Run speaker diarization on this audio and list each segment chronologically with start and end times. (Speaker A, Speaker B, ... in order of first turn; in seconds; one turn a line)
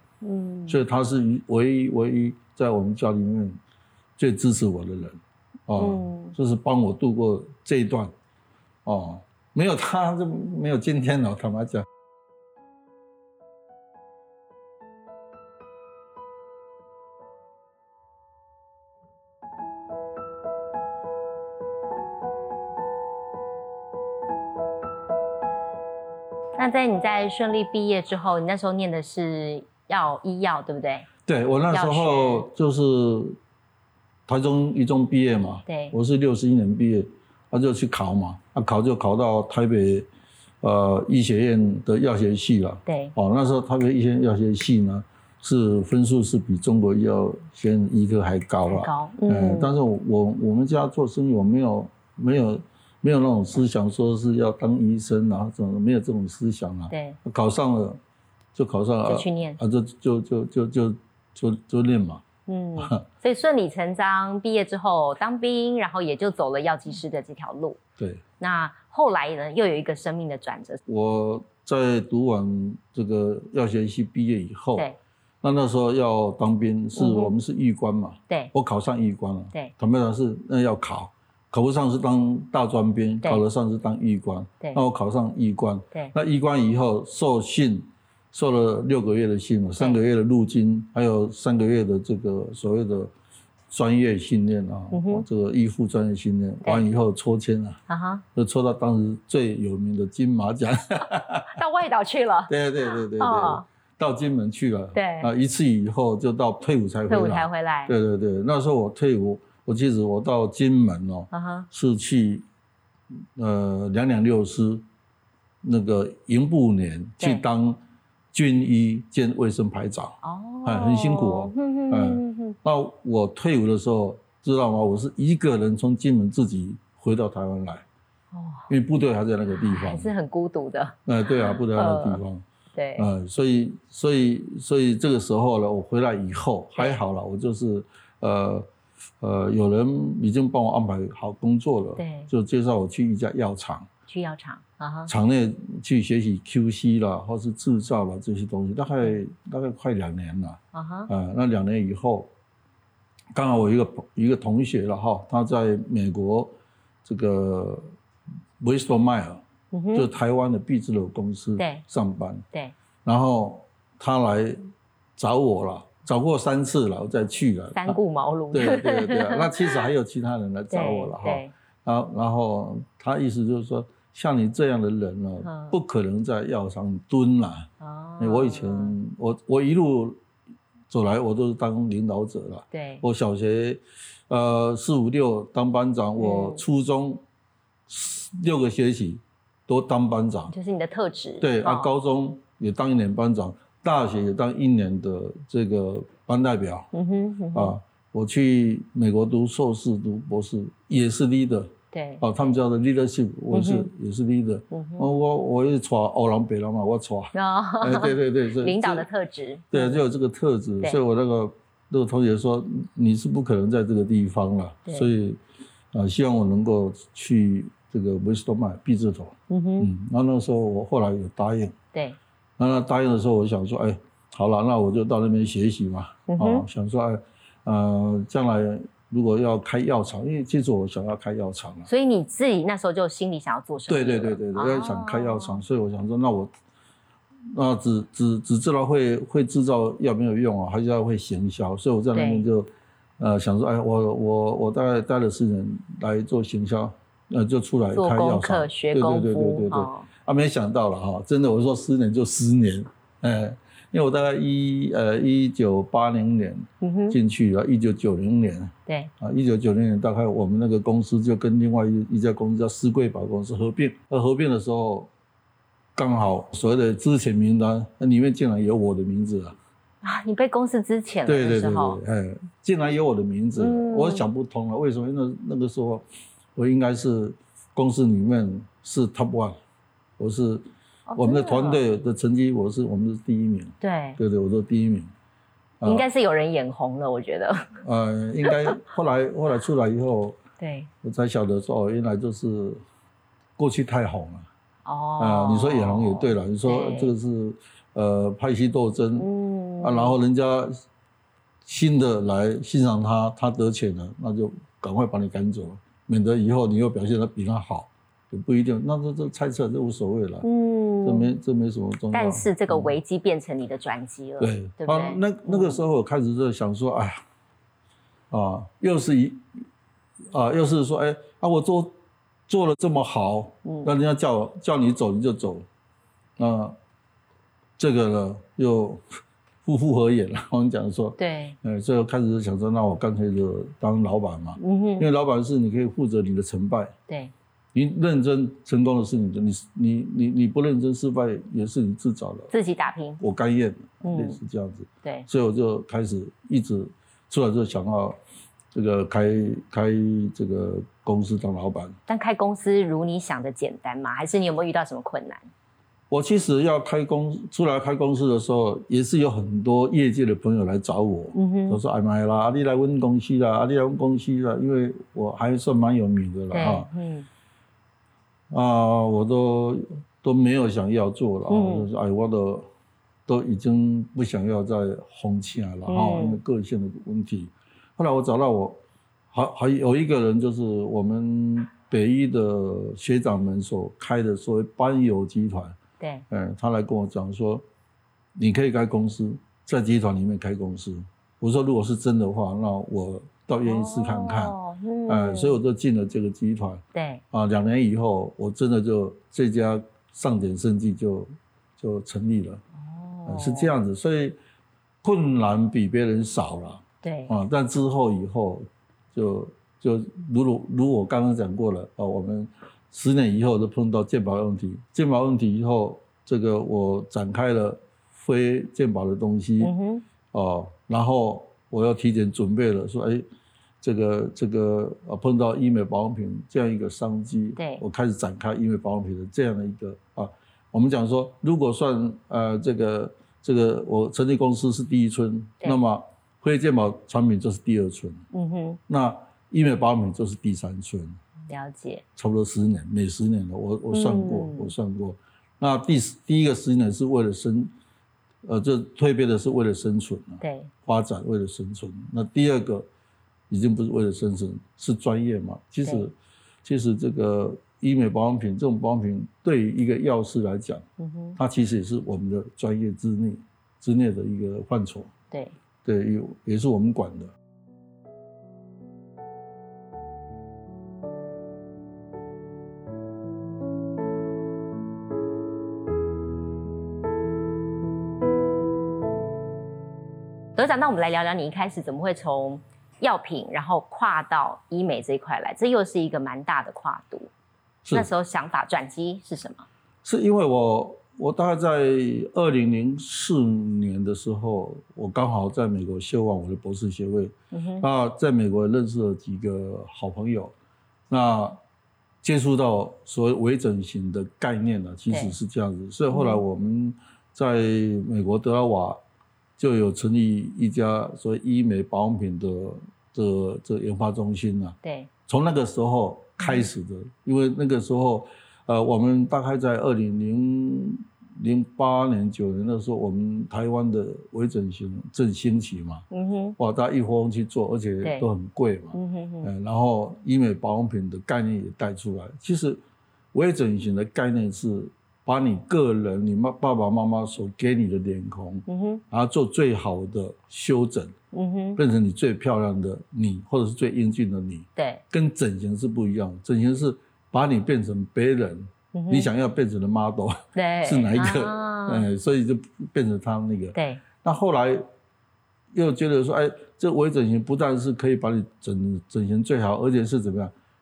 Speaker A: 0.2-0.8
Speaker B: 0.7-3.6
Speaker B: 4.2-8.1
Speaker A: 5.8-6.3
Speaker B: 8.8-11.9
Speaker A: 26.6-31.1
Speaker B: 31.3-33.4
Speaker A: 31.7-32.5
Speaker B: 34.3-40.1
Speaker A: 35.7-36.0
Speaker B: 40.6-58.0
Speaker A: 42.9-43.1
Speaker A: 48.7-49.7
Speaker A: 56.9-57.2
Speaker B: 58.5-62.2
Speaker A: 59.1-59.6
Speaker A: 62.5-67.8
Speaker B: 62.8-63.0
Speaker B: 68.0-68.2
Speaker A: 68.4-70.8
Speaker B: 70.9-74.9
Speaker B: 75.4-93.1
Speaker A: 77.0-77.3
Speaker B: 93.7-97.8
Speaker A: 94.9-95.2
Speaker A: 97.9-98.2
Speaker B: 98.3-101.6
Speaker A: 101.5-103.6
Speaker B: 102.5-112.5
Speaker A: 105.0-105.3
Speaker A: 107.1-107.9
Speaker A: 111.3-111.7
Speaker B: 113.3-114.8
Speaker B: 115.6-117.8
Speaker B: 118.3-127.8
Speaker A: 120.2-122.6
Speaker A: 128.3-128.7
Speaker B: 128.7-130.1
Speaker A: 129.5-132.2
Speaker B: 131.1-132.4
Speaker A: 132.8-133.1
Speaker B: 133.0-138.7
Speaker B: 139.2-143.9
Speaker A: 142.0-142.3
Speaker A: 144.1-145.1
Speaker B: 145.1-152.3
Speaker A: 150.7-151.1
Speaker B: 153.3-157.9
Speaker B: 158.6-162.5
Speaker A: 159.7-160.1
Speaker A: 161.6-161.8
Speaker B: 163.1-168.0
Speaker A: 167.8-169.8
Speaker B: 168.5-180.2
Speaker A: 170.7-171.5
Speaker A: 175.4-175.8
Speaker A: 177.8-179.0
Speaker B: 180.9-187.2
Speaker A: 182.7-183.0
Speaker A: 186.2-186.6
Speaker B: 187.9-190.5
Speaker A: 190.5-191.9
Speaker B: 191.4-196.9
Speaker A: 196.9-197.8
Speaker B: 197.5-209.1
Speaker A: 201.9-202.2
Speaker A: 203.5-203.9
Speaker A: 204.7-205.1
Speaker A: 207.3-210.0
Speaker B: 209.7-215.4
Speaker B: 215.9-221.8
Speaker A: 219.5-219.9
Speaker B: 222.6-231.9
Speaker A: 226.3-226.7
Speaker A: 231.9-235.6
Speaker B: 233.9-236.5
Speaker B: 237.5-265.1
Speaker A: 242.1-242.4
Speaker A: 247.9-250.1
Speaker A: 256.8-257.2
Speaker A: 258.9-259.1
Speaker B: 266.0-269.6
Speaker A: 270.0-272.0
Speaker B: 271.3-279.6
Speaker A: 273.6-274.3
Speaker B: 280.2-285.1
Speaker A: 281.1-281.8
Speaker A: 283.8-284.2
Speaker B: 285.8-286.1
Speaker A: 285.9-287.8
Speaker B: 287.8-290.4
Speaker A: 288.4-288.8
Speaker A: 290.6-290.9
Speaker B: 291.0-292.8
Speaker B: 293.6-294.5
Speaker A: 294.9-297.1
Speaker B: 295.2-299.3
Speaker A: 299.2-300.2
Speaker B: 299.8-300.8
Speaker B: 301.6-310.5
Speaker A: 310.4-311.3
Speaker B: 311.0-313.0
Speaker A: 312.1-315.8
Speaker B: 314.4-317.2
Speaker B: 318.3-319.4
Speaker B: 320.3-322.0
Speaker B: 322.5-325.7
Speaker A: 323.6-323.9
Speaker B: 326.4-326.8
Speaker B: 327.8-329.0
Speaker B: 329.6-336.9
Speaker A: 331.2-331.6
Speaker A: 334.6-335.1
Speaker A: 337.1-337.3
Speaker B: 337.7-342.5
Speaker A: 342.5-343.2
Speaker B: 343.2-348.2
Speaker A: 344.0-344.4
Speaker B: 348.7-352.0
Speaker A: 352.1-355.5
Speaker B: 356.1-366.9
Speaker A: 361.4-361.8
Speaker A: 366.5-367.3
Speaker B: 368.5-372.7
Speaker A: 371.5-371.9
Speaker B: 373.3-378.8
Speaker A: 375.9-376.4
Speaker B: 379.3-385.8
Speaker A: 386.0-386.3
Speaker B: 386.3-387.6
Speaker B: 388.4-394.6
Speaker A: 393.6-395.6
Speaker B: 395.1-402.6
Speaker A: 396.9-397.2
Speaker A: 402.8-403.7
Speaker B: 403.3-404.4
Speaker B: 405.0-419.7
Speaker A: 407.0-407.3
Speaker A: 419.6-420.1
Speaker B: 420.3-423.2
Speaker B: 423.8-438.3
Speaker A: 427.6-427.8
Speaker A: 438.3-438.8
Speaker B: 438.9-441.2
Speaker A: 441.5-442.0
Speaker B: 442.2-447.7
Speaker A: 443.9-444.7
Speaker B: 448.4-452.9
Speaker A: 450.4-450.7
Speaker B: 453.5-465.1
Speaker A: 461.0-461.4
Speaker B: 465.8-467.3
Speaker A: 480.6-487.3
Speaker B: 487.8-488.1
Speaker A: 487.9-489.7
Speaker B: 490.0-500.6
Speaker A: 497.5-497.9
Speaker B: 501.1-501.6
Speaker B: 502.2-509.0
Speaker A: 505.1-505.4
Speaker A: 506.1-506.4
Speaker B: 509.6-526.1
Speaker A: 514.8-515.1
Speaker A: 526.1-526.6
Speaker B: 526.6-532.8
Speaker A: 528.0-528.3
Speaker A: 528.9-529.5
Speaker B: 533.3-541.1
Speaker A: 538.7-539.0
Speaker A: 541.3-541.8
Speaker B: 541.8-554.9
Speaker A: 544.8-545.0
Speaker A: 548.9-549.3
Speaker A: 550.5-552.1
Speaker A: 553.8-554.0
Speaker B: 555.7-560.5